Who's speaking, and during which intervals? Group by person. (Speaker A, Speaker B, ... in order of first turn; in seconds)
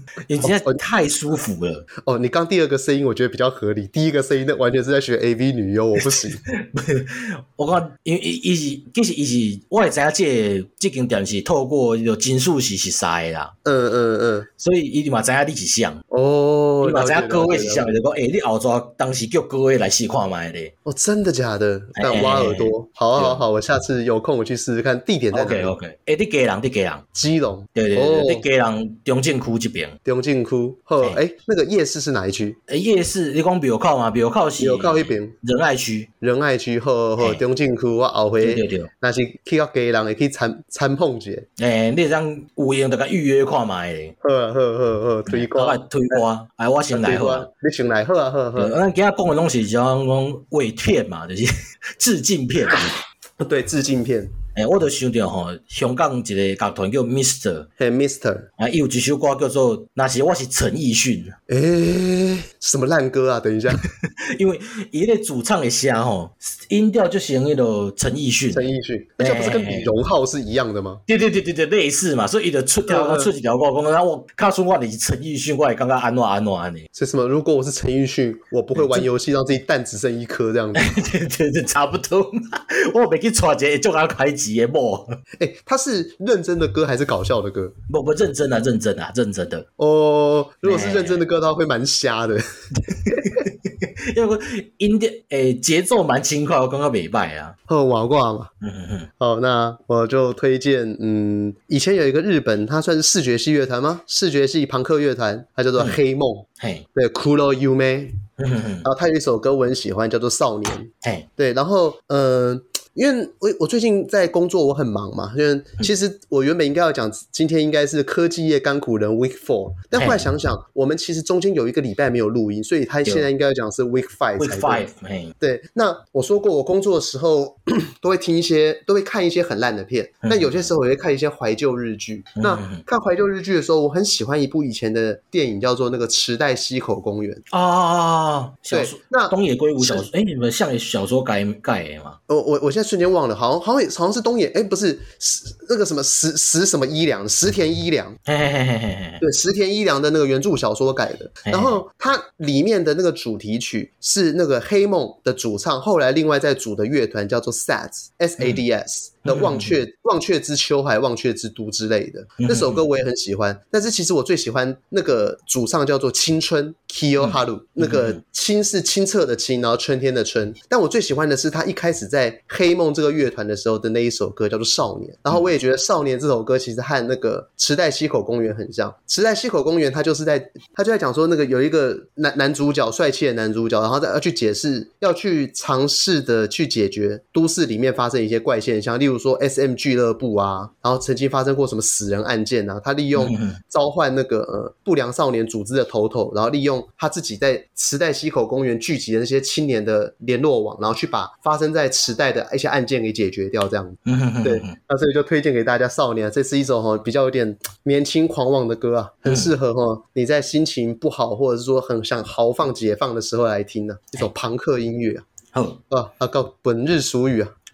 Speaker A: 0.2-1.9, 6.0-13.5, 14.6-16.0, 16.8-20.7, 21.9-23.4, 25.3-27.0, 27.7-30.0, 32.7-36.1, 38.4-38.9, 41.6-44.1, 45.3-47.5, 48.5-52.9, 54.5-57.7, 58.6-61.4, 63.8-68.7, 69.2-69.9, 71.1-76.9, 78.8-79.0, 80.7-85.2, 87.9-89.7, 90.6-91.2, 92.8-97.5, 98.6-99.1, 106.6-106.8, 108.4-108.9, 119.9-120.3, 124.4-125.3, 130.2-130.7, 132.3-132.8, 137.5-142.2, 148.2-149.2, 151.4-151.8, 159.2-159.8, 162.4-162.8, 167.2-168.2, 193.2-193.6, 204.0-204.8, 209.3-209.5, 215.5-215.8
Speaker B: 0.4-0.8, 2.0-6.4, 13.6-14.5, 16.1-17.9, 20.9-25.7, 27.1-28.4, 30.0-32.6, 34.6-35.3, 36.2-41.5, 44.2-45.8, 46.9-48.7, 53.4-54.3, 57.8-58.5, 61.5-63.8, 68.5-71.0, 72.9-73.3, 76.9-80.9, 85.4-87.7, 89.8-92.4, 93.1-93.4, 97.7-98.5, 99.2-108.1, 108.8-124.8, 125.4-137.4, 138.7-140.1, 142.3-148.2, 149.2-215.2, 215.9-217.5